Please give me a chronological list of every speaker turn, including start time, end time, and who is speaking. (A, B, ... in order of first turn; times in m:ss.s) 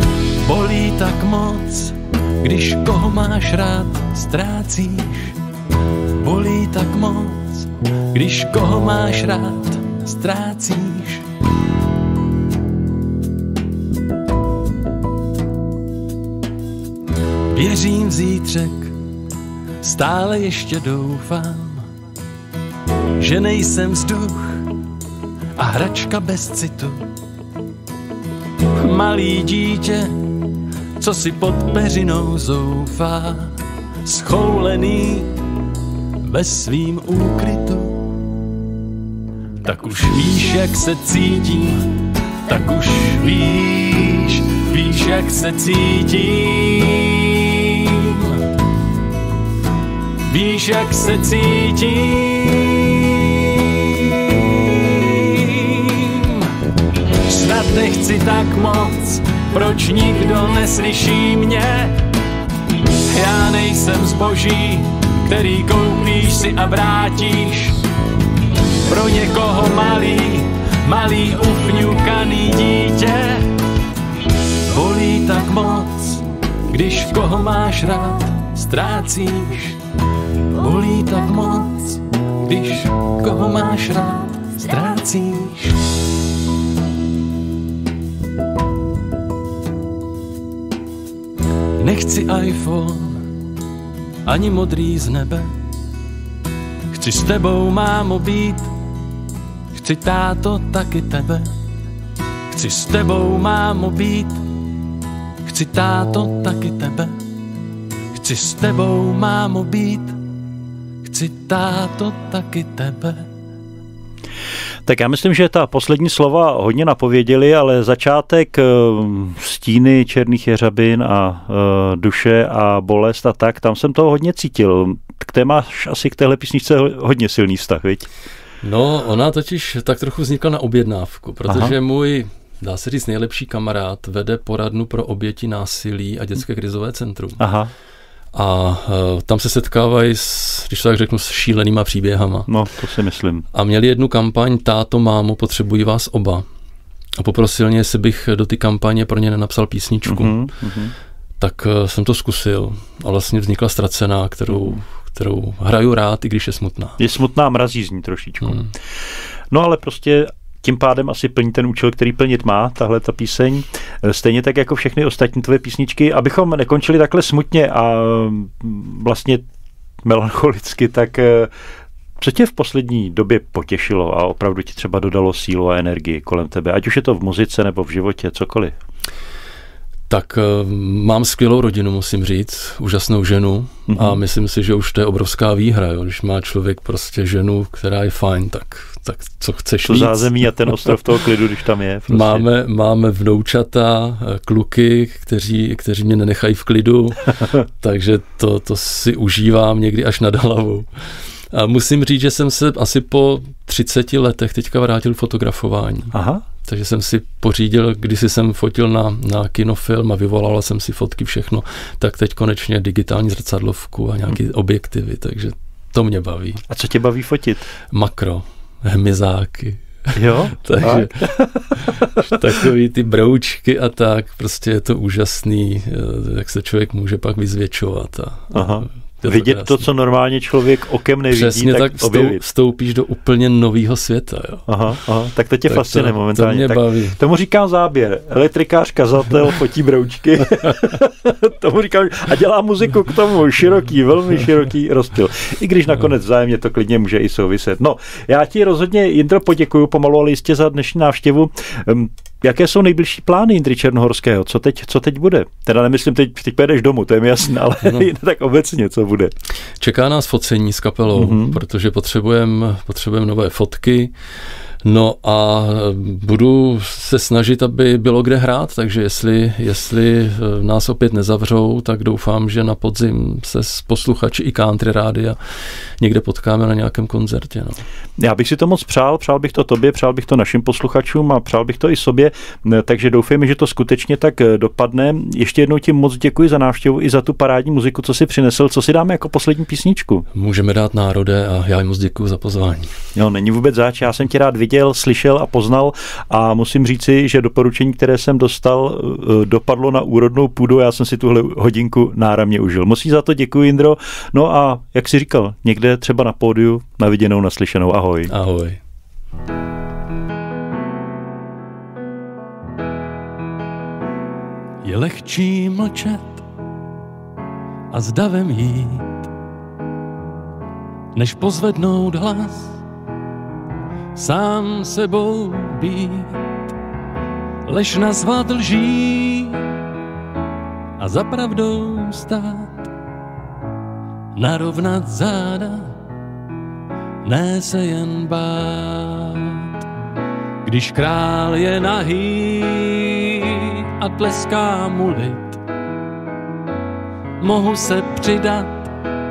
0:00.4-0:05.4 A
0:06.2-0:11.2 A
0:17.5-0:18.9 A
0:19.8-0:21.9 A
0:23.2-0:24.7 A
0:25.6-0:27.0 A
0:28.8-0:30.2 A
0:31.0-0:35.3 A
0:36.2-0:38.0 A
0:39.6-0:41.9 A
0:42.4-0:48.4 A
0:50.3-0:56.5 A
0:57.2-1:02.0 A
1:03.1-1:07.8 A
1:08.8-1:13.5 A
1:14.7-1:19.8 A
1:20.5-1:25.8 A
1:31.8-1:33.2 A
1:34.2-1:35.5 A
1:36.9-1:38.7 A
1:39.7-1:41.5 A
1:42.5-1:44.4 A
1:45.4-1:47.2 A
1:48.2-1:50.2 A
1:51.0-1:53.3 A
1:54.9-2:08.1 B
2:08.6-2:17.4 C
2:11.5-2:11.7 B
2:17.4-2:17.7 B
2:18.3-2:22.5 C
2:22.5-2:23.4 B
2:23.5-2:26.4 C
2:27.2-2:30.3 C
2:30.1-2:30.9 B
2:31.4-2:37.0 C
2:34.5-2:34.8 B
2:37.0-2:38.7 B
2:39.5-2:49.4 B
2:50.0-2:51.5 B
2:52.2-2:58.7 B
3:00.1-3:10.9 C
3:03.9-3:04.2 B
3:09.8-3:12.4 B
3:12.1-3:20.9 C
3:21.5-3:36.6 C
3:26.1-3:26.4 B
3:36.7-3:37.6 B
3:37.9-3:49.8 C
3:40.2-3:42.1 B
3:48.5-3:52.4 B
3:51.3-3:54.7 C
3:54.7-4:19.3 B
3:55.7-3:57.2 C
4:19.8-4:24.1 C
4:21.1-4:21.6 B
4:24.8-4:35.4 C
4:36.0-4:37.8 C
4:38.2-4:50.2 B
4:50.3-4:52.9 C
4:53.1-5:08.3 B
5:08.3-5:08.8 C
5:14.8-5:16.4 A
5:17.9-5:19.3 A
5:21.1-5:22.8 A
5:24.1-5:26.6 A
5:27.6-5:29.6 A
5:31.0-5:32.9 A
5:34.3-5:36.0 A
5:37.2-5:39.7 A
5:40.6-5:45.6 A
5:47.4-5:48.9 A